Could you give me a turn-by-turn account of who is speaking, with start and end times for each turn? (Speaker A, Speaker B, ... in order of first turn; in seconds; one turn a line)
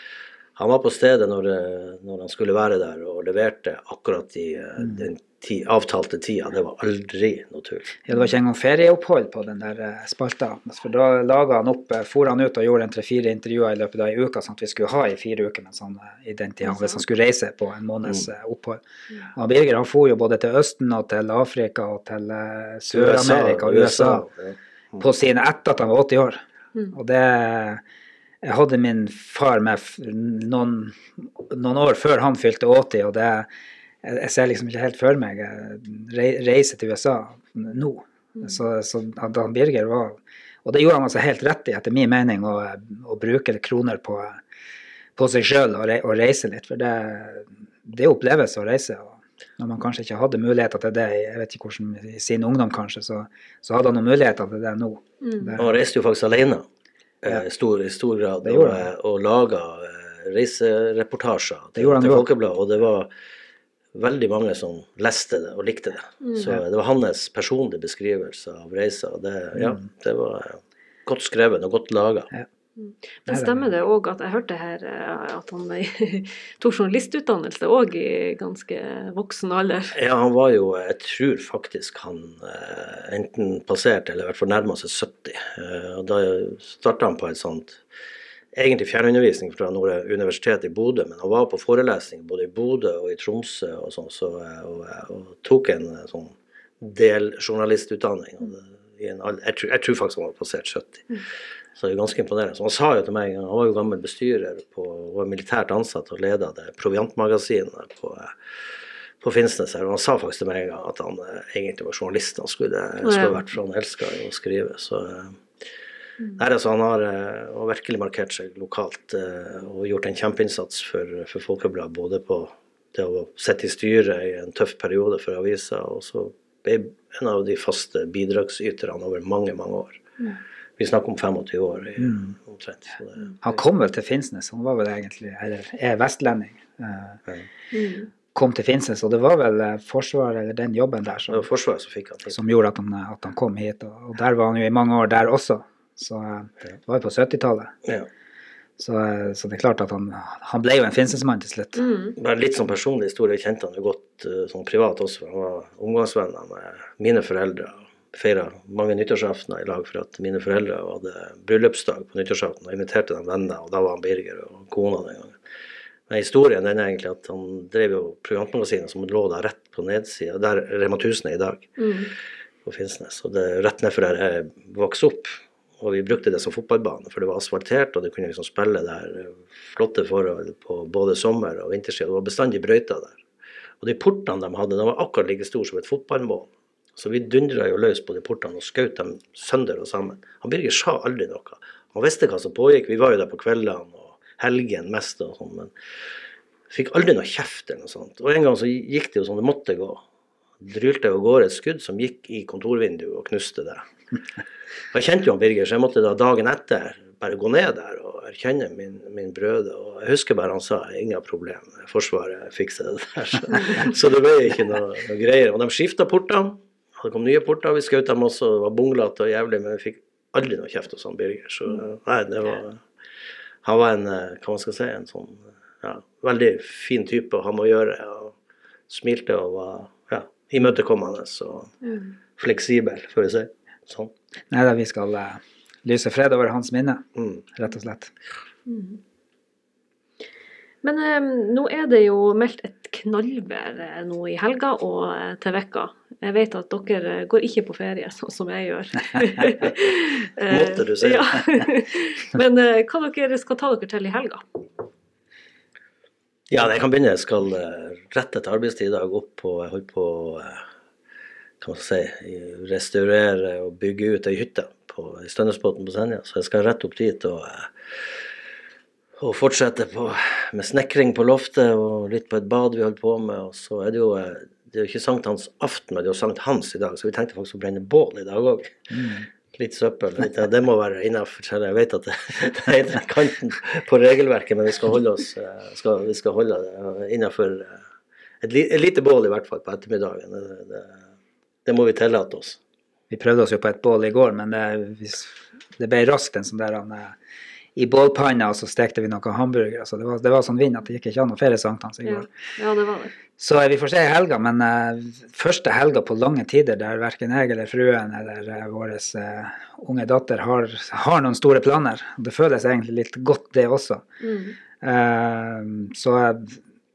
Speaker A: 0.6-7.9
Speaker B: 4.8-5.0
Speaker B: 8.0-18.8
Speaker C: 16.7-17.0
Speaker B: 19.3-24.2
Speaker A: 22.9-25.0
Speaker B: 25.0-27.8
Speaker B: 28.4-33.5
Speaker B: 34.0-44.4
Speaker B: 45.1-55.6
Speaker C: 55.2-55.5
Speaker A: 55.6-56.6
Speaker A: 57.2-63.1
Speaker B: 58.4-58.8
Speaker B: 61.8-62.2
Speaker A: 63.9-72.3
Speaker C: 66.2-66.5
Speaker B: 69.6-69.8
Speaker C: 72.8-80.0
Speaker B: 73.3-73.5
Speaker A: 79.9-87.8
Speaker A: 88.5-101.2
Speaker A: 101.8-108.3
Speaker A: 109.2-115.4
Speaker C: 113.0-113.4
Speaker A: 116.3-130.0
Speaker A: 130.8-133.5
Speaker B: 132.0-132.3
Speaker B: 133.4-137.2
Speaker C: 137.7-138.1
Speaker B: 138.3-141.5
Speaker A: 141.3-142.3
Speaker B: 142.3-147.7
Speaker B: 148.8-151.8
Speaker C: 151.8-152.2
Speaker A: 152.2-165.4
Speaker A: 166.1-171.8
Speaker C: 171.8-172.1
Speaker A: 172.6-183.2
Speaker A: 183.8-195.7
Speaker A: 196.7-200.0
Speaker A: 200.6-203.8
Speaker A: 204.9-222.8
Speaker A: 223.6-228.3
Speaker A: 228.9-231.7
Speaker C: 231.8-232.1
Speaker A: 232.4-234.1
Speaker B: 234.5-238.1
Speaker A: 237.2-237.4
Speaker C: 238.7-239.0
Speaker C: 240.8-254.4
Speaker A: 250.5-251.3
Speaker A: 256.5-260.6
Speaker A: 261.6-268.2
Speaker A: 269.2-287.8
Speaker B: 278.9-279.3
Speaker A: 288.4-291.0
Speaker A: 291.6-292.6
Speaker B: 293.1-297.1
Speaker B: 297.8-302.2
Speaker C: 302.1-303.1
Speaker B: 303.4-314.0
Speaker C: 314.2-314.6
Speaker B: 314.8-316.6